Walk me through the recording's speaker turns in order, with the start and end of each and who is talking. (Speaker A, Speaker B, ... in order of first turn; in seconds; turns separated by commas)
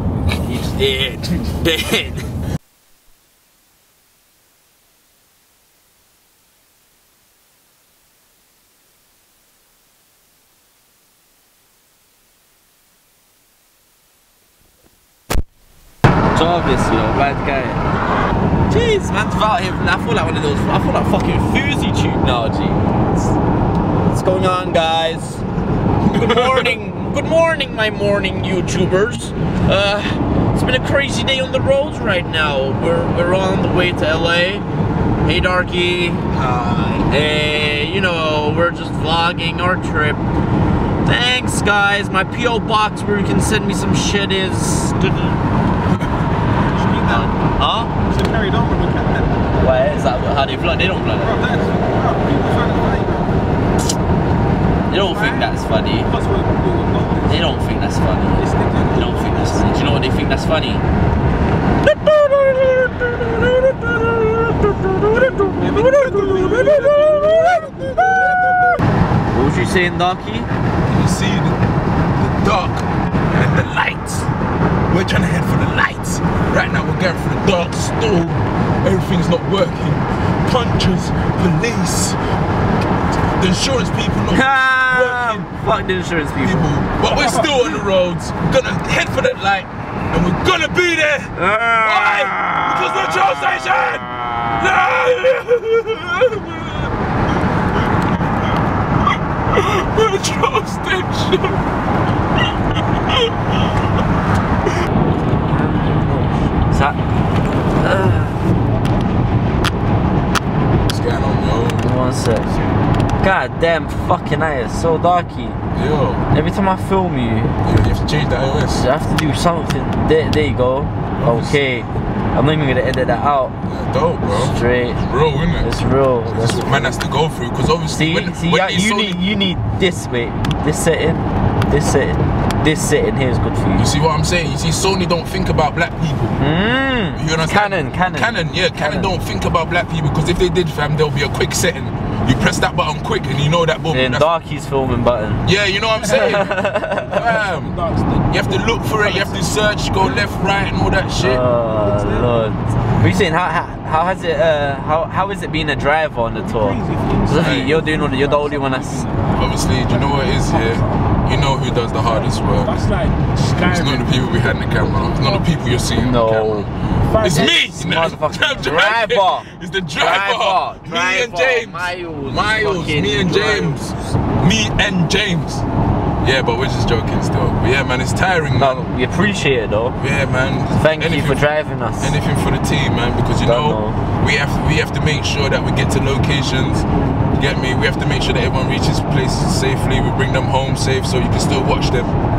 Speaker A: 0.4-2.3, Speaker A: 16.3-17.8, Speaker A: 18.7-23.3, Speaker A: 23.9-25.4, Speaker A: 26.0-34.7, Speaker B: 26.1-26.5, Speaker A: 35.2-40.2, Speaker A: 41.0-45.4, Speaker C: 46.7-47.3, Speaker A: 47.0-47.9, Speaker C: 48.0-49.4, Speaker A: 49.5-51.4, Speaker C: 51.2-53.3, Speaker A: 54.9-56.1, Speaker C: 55.0-55.5, Speaker C: 56.0-57.5, Speaker A: 57.3-60.8, Speaker C: 58.4-59.6, Speaker A: 61.8-67.7, Speaker C: 65.2-68.6, Speaker B: 66.2-67.7, Speaker A: 69.3-70.5, Speaker B: 70.8-71.6, Speaker B: 72.2-74.3, Speaker B: 74.9-82.2, Speaker B: 83.4-85.5, Speaker A: 84.3-87.5, Speaker B: 86.4-96.9, Speaker A: 91.3-93.9, Speaker B: 99.5-101.6, Speaker A: 105.3-108.4, Speaker B: 110.9-111.9, Speaker A: 111.8-112.5, Speaker A: 113.2-115.6, Speaker B: 115.7-116.2, Speaker A: 116.3-117.5, Speaker B: 117.6-118.8, Speaker A: 118.7-123.5, Speaker B: 121.2-121.8, Speaker B: 123.7-125.7, Speaker A: 124.3-125.0, Speaker A: 125.6-127.0, Speaker B: 126.2-129.2, Speaker A: 127.9-133.9, Speaker B: 133.8-136.4, Speaker A: 136.4-139.1, Speaker B: 137.1-144.3, Speaker A: 143.9-145.4, Speaker B: 145.4-147.8, Speaker A: 146.0-147.2, Speaker D: 147.1-149.3, Speaker B: 148.3-151.4, Speaker A: 151.2-159.0, Speaker C: 151.9-152.3, Speaker D: 156.4-161.0, Speaker B: 157.4-157.8, Speaker B: 159.3-162.8, Speaker D: 162.1-165.5, Speaker B: 163.5-175.6, Speaker A: 165.9-166.7, Speaker D: 167.1-167.8, Speaker A: 167.2-174.1, Speaker B: 176.2-178.8, Speaker A: 178.6-180.0, Speaker B: 180.0-186.8, Speaker A: 180.8-182.1, Speaker A: 183.4-184.0, Speaker B: 187.4-192.1